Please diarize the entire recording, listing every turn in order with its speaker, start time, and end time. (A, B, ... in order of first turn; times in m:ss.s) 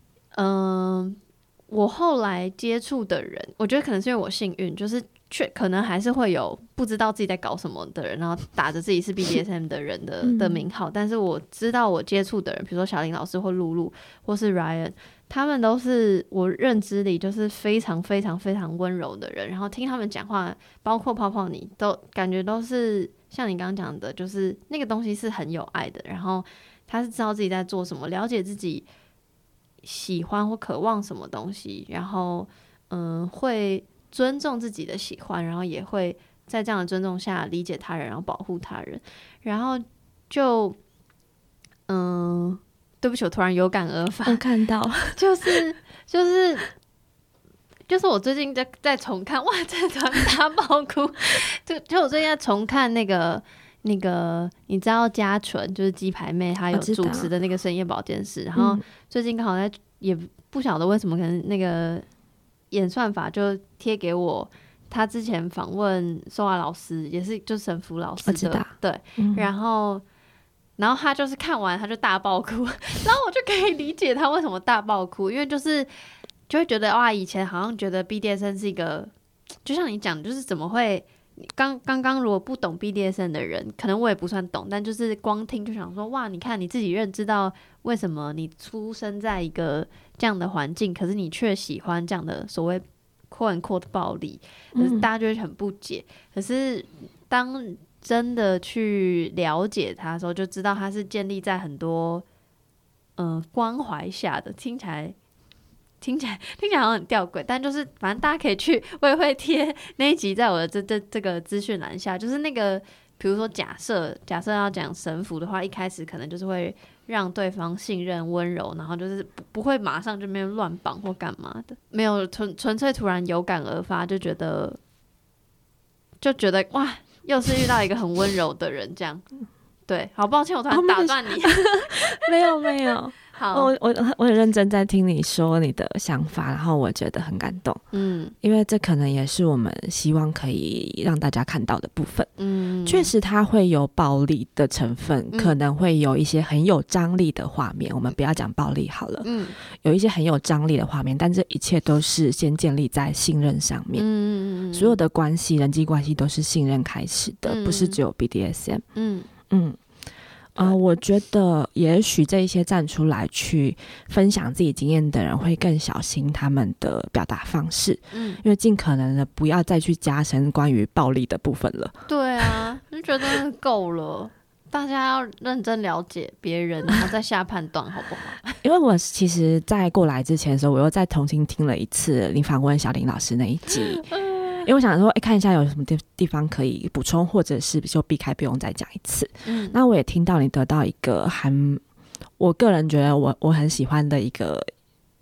0:00.3-0:28.8 A
0:10.2-0:10.6 B
0:29.8-0:40.8 A
0:41.9-0:44.4 A
0:44.2-0:45.2 B
0:45.1-0:46.7 A
0:47.9-1:02.0 A
0:56.7-0:57.3 B
0:58.6-0:58.8 B
1:02.7-1:10.0 A
1:08.2-1:09.5 B
1:10.8-1:15.9 A
1:16.5-1:19.1 A
1:19.6-1:42.2 A
1:34.8-1:35.1 B
1:43.2-1:45.1 A
1:46.0-2:04.8 A
2:06.2-2:09.2 A
2:09.9-2:12.6 A
2:10.7-2:17.8 B
2:13.3-2:13.7 A
2:17.9-2:18.3 A
2:18.4-2:22.3 B
2:22.4-2:23.1 A
2:22.8-2:34.0 B
2:29.2-2:29.6 A
2:33.9-2:35.0 A
2:34.7-2:38.8 B
2:37.4-2:38.0 A
2:39.0-2:39.3 A
2:39.5-2:39.8 B
2:40.5-2:52.6 B
2:48.1-2:48.4 A
2:52.1-2:58.6 A
2:58.6-3:11.8 B
3:04.0-3:04.6 A
3:09.4-3:09.8 A
3:12.4-3:14.7 B